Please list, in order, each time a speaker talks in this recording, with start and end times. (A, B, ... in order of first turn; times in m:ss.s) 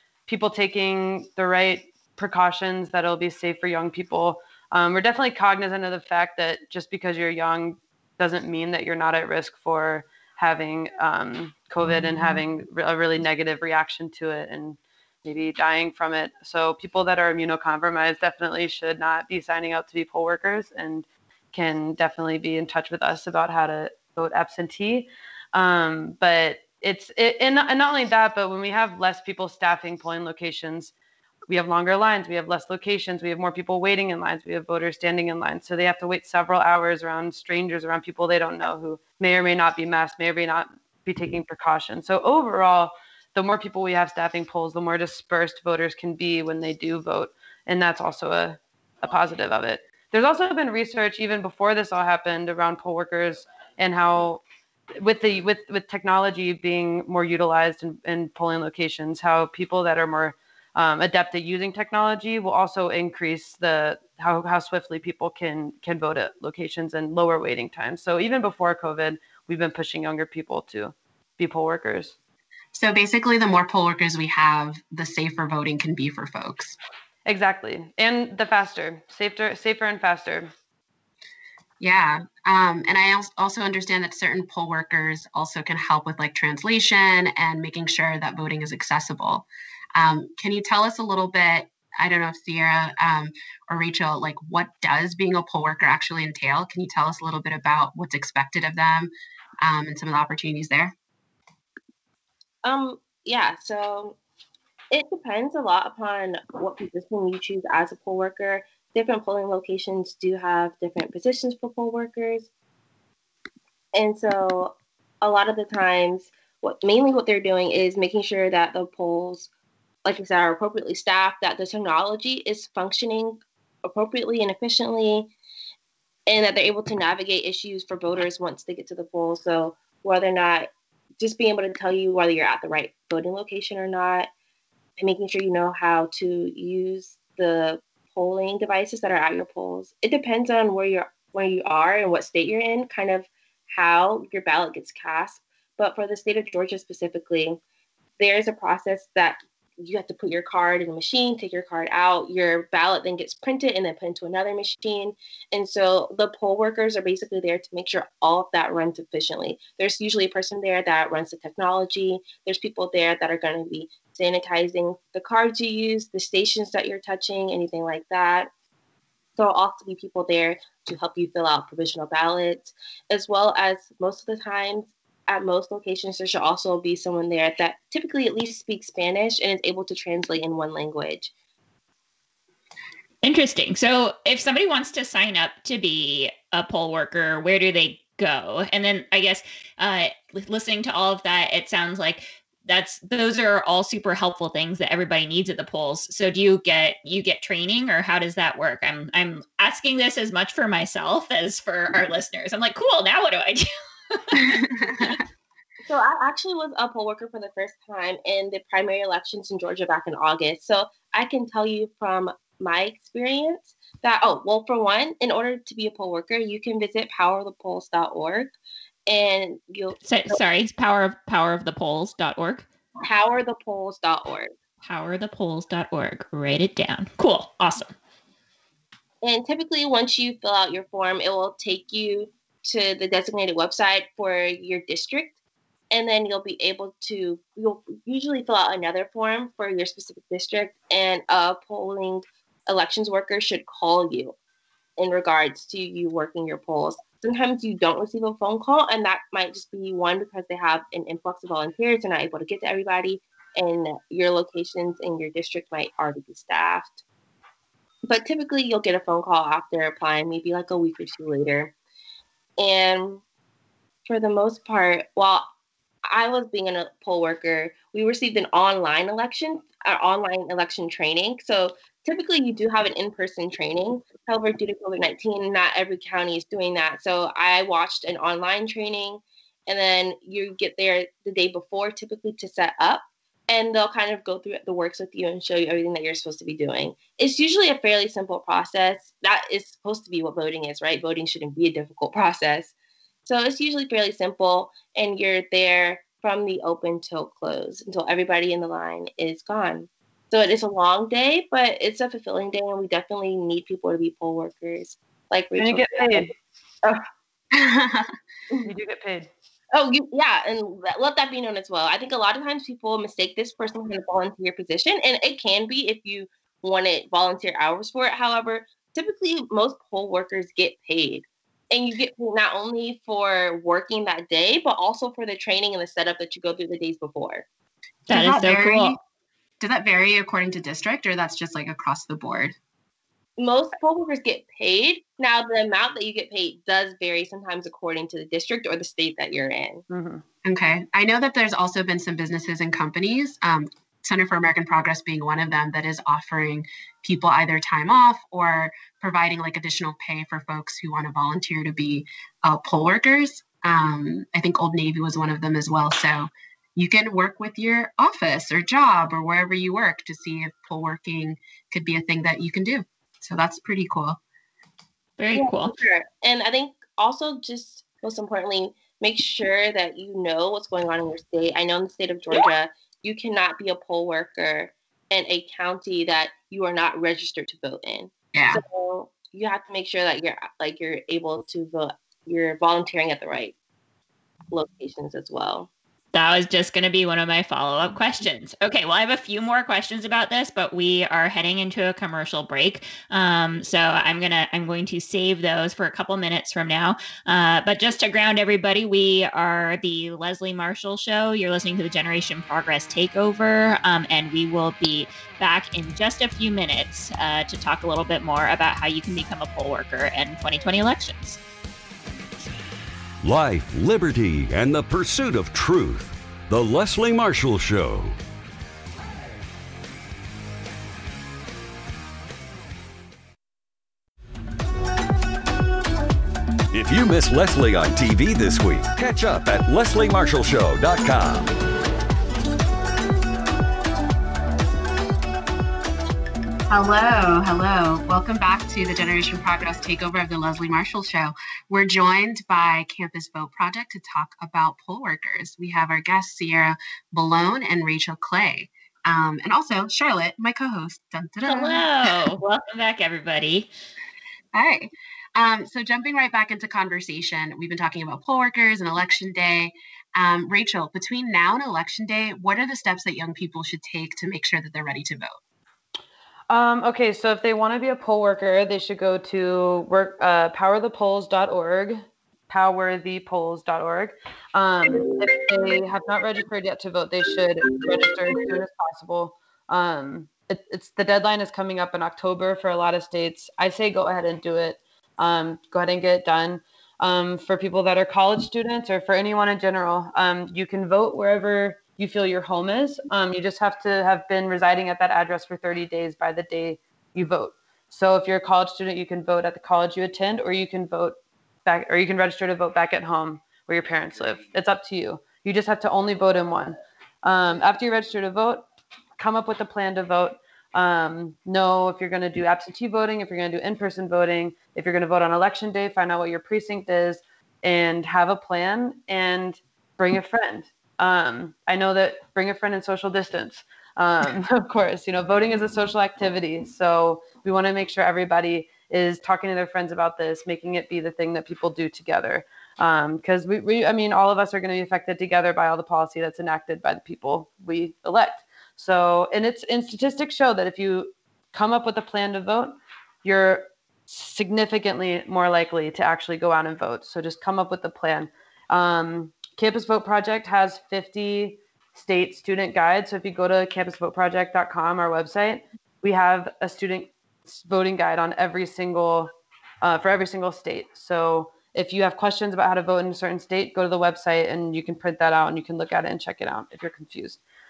0:00.3-0:30.9 A
0:31.5-0:54.4 A
0:55.0-1:12.1 A
1:12.7-1:16.8 B
1:17.3-1:20.5 A
1:21.8-1:39.1 B
1:39.6-1:41.0 B
1:42.6-1:44.2 C
1:44.9-1:52.5 C
1:53.9-1:59.5 C
2:00.0-2:05.3 C
2:06.3-2:10.7 C
2:11.2-2:14.3 C
2:15.0-2:27.6 C
2:28.2-2:48.5 C
2:49.4-3:01.3 C
3:03.2-3:25.2 D
3:24.4-3:25.2 B
3:25.9-3:38.5 C
3:39.1-3:40.4 C
3:40.0-3:42.7 D
3:43.0-3:44.5 C
3:44.8-3:47.9 D
3:49.2-3:55.4 C
3:55.9-4:04.4 C
4:05.0-4:17.0 C
4:18.1-4:21.7 C
4:22.6-4:23.2 C
4:24.1-4:25.5 C
4:26.1-4:52.7 C
4:53.3-5:06.3 C
5:05.6-5:06.3 A
5:07.5-5:08.1 B
5:08.6-5:09.3 A
5:09.7-5:27.5 C
5:28.1-5:29.0 D
5:28.1-5:29.0 B
5:29.6-5:32.5 B
5:33.4-5:39.8 C
5:39.9-5:40.2 A
5:40.4-6:04.2 B
6:05.2-6:05.7 D
6:05.3-6:23.6 C
6:18.3-6:18.6 B
6:24.5-6:25.7 C
6:26.1-6:51.4 D
6:53.2-6:58.2 E
7:06.7-7:11.5 E
7:16.7-7:32.3 B
7:31.4-7:33.7 D
7:34.5-7:45.4 B
7:46.5-8:28.7 A
8:29.2-9:19.3 A
9:19.8-9:27.4 A